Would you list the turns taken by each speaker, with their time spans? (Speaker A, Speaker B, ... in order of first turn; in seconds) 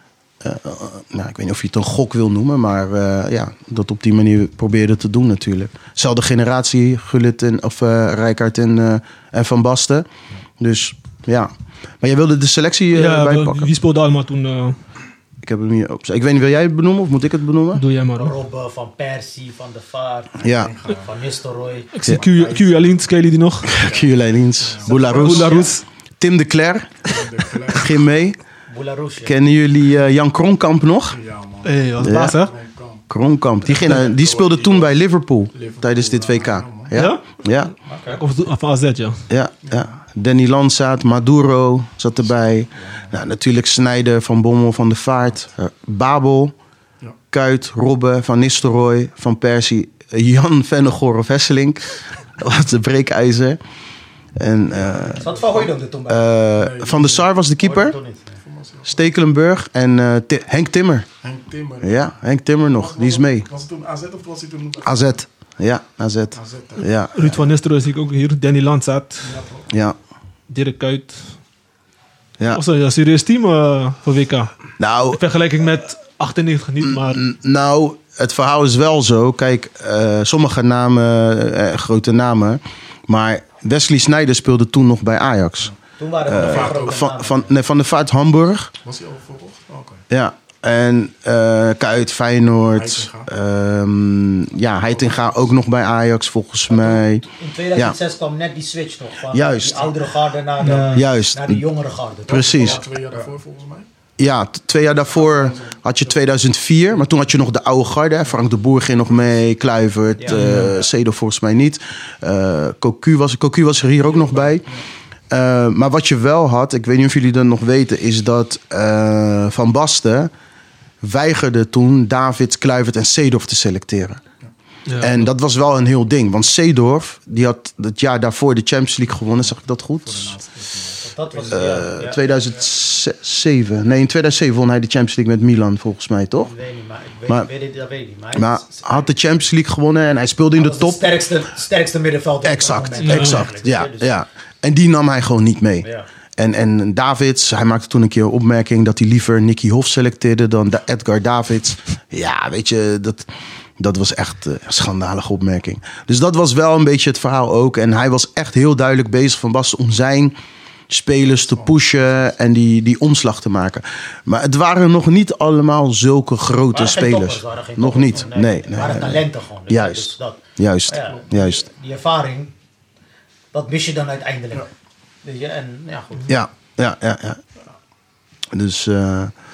Speaker A: 0.4-10.1, 10.6-13.7, 15.4-17.8, 20.4-20.7, 23.6-27.1, 27.7-28.4, 29.2-31.2, 32.0-32.4, 33.1-37.7, 39.3-46.5, 47.3-53.6, 54.4-55.2, 56.1-58.0, 58.8-61.1, 61.8-63.5, 64.8-67.5, 69.7-70.0, 74.8-75.2, 76.8-85.7, 86.2-88.7, 90.1-97.9, 99.3-99.9, 100.9-101.6, 102.3-102.8, 104.2-114.8, 115.3-120.3, 121.0-124.2, 125.0-130.3, 131.5-136.5, 138.3-141.0, 142.4-145.8, 146.4-153.3, 153.8-160.3, 160.9-171.6, 176.3-177.4, 178.5-179.3
Speaker B: 12.9-14.8, 17.7-18.3, 21.9-23.7, 24.9-25.8, 31.6-32.5, 36.9-37.2, 38.0-39.2, 67.1-69.3, 70.5-71.2, 72.5-77.2, 100.6-101.0, 110.3-110.7, 124.9-125.3, 143.0-143.5
Speaker C: 18.1-21.9, 25.1-25.7, 28.7-29.4, 37.9-38.2, 55.1-56.3, 57.6-58.4, 86.0-87.5, 96.7-103.3, 131.0-132.3, 136.4-139.1, 140.5-144.1, 145.8-146.1, 166.7-172.5, 173.5-174.7, 175.2-176.3
Speaker D: 20.6-21.1, 22.0-22.9, 23.6-25.6, 27.1-28.0, 31.1-33.0, 33.7-35.0, 35.5-36.9, 39.6-39.9, 42.8-43.1, 54.7-55.7, 56.6-57.3, 58.4-59.1, 61.2-62.1, 62.7-65.1, 66.3-66.9, 69.2-69.7, 86.3-87.0, 88.8-90.0, 92.7-93.3, 94.8-95.4, 102.3-103.9, 105.1-106.3, 114.0-114.8, 130.0-131.8, 161.3-162.3